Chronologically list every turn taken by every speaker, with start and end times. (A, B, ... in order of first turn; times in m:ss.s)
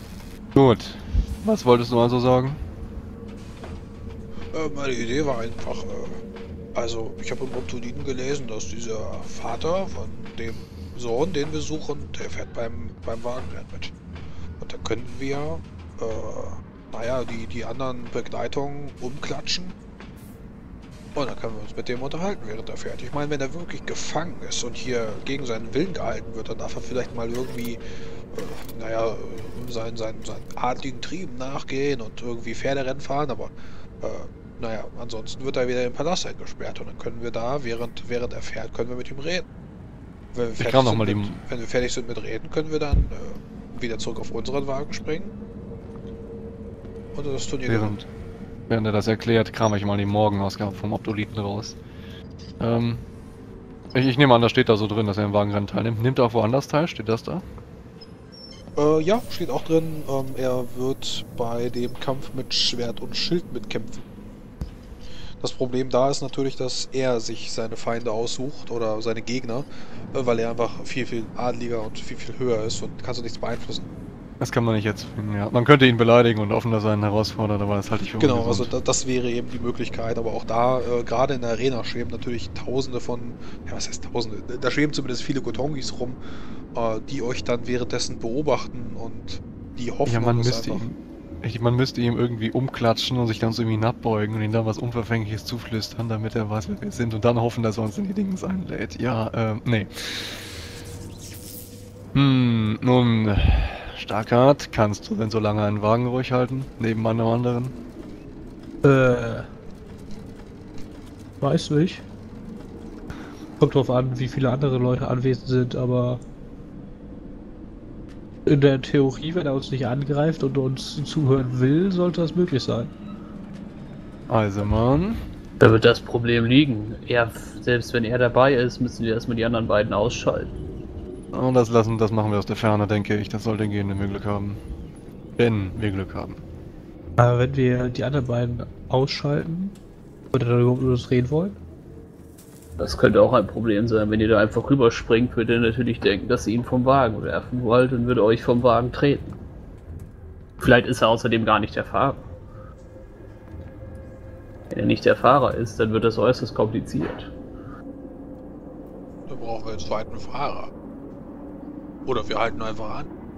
0:00.5-0:02.6 A
0:04.5-0:06.2 B
0:06.7-0:13.9 B
0:14.6-0:19.7 B
0:21.1-0:27.8 B
0:28.3-0:39.4 B
0:40.3-0:45.3 B
0:40.6-0:41.4 A
0:47.1-0:48.0 B
0:47.7-0:48.1 A
0:48.7-0:51.8 A
0:52.6-0:53.0 A
0:53.9-0:57.4 A
0:58.8-1:04.0 B
1:05.4-1:13.9 B
1:14.4-1:18.7 A
1:18.2-1:26.2 B
1:26.7-1:30.8 B
1:30.0-1:40.4 A
1:42.1-1:47.7 A
1:48.8-1:49.5 C
1:51.4-1:52.0 C
1:53.6-1:56.2 C
1:58.4-2:02.9 C
2:04.3-2:05.2 A
2:05.6-2:10.5 D
2:11.3-2:14.6 A
2:15.4-2:16.4 A
2:17.2-2:19.8 C
2:20.3-2:21.6 C
2:22.8-2:29.3 D
2:30.6-2:32.2 D
2:34.7-2:37.3 D
2:39.3-2:40.7 B
2:42.0-2:43.1 B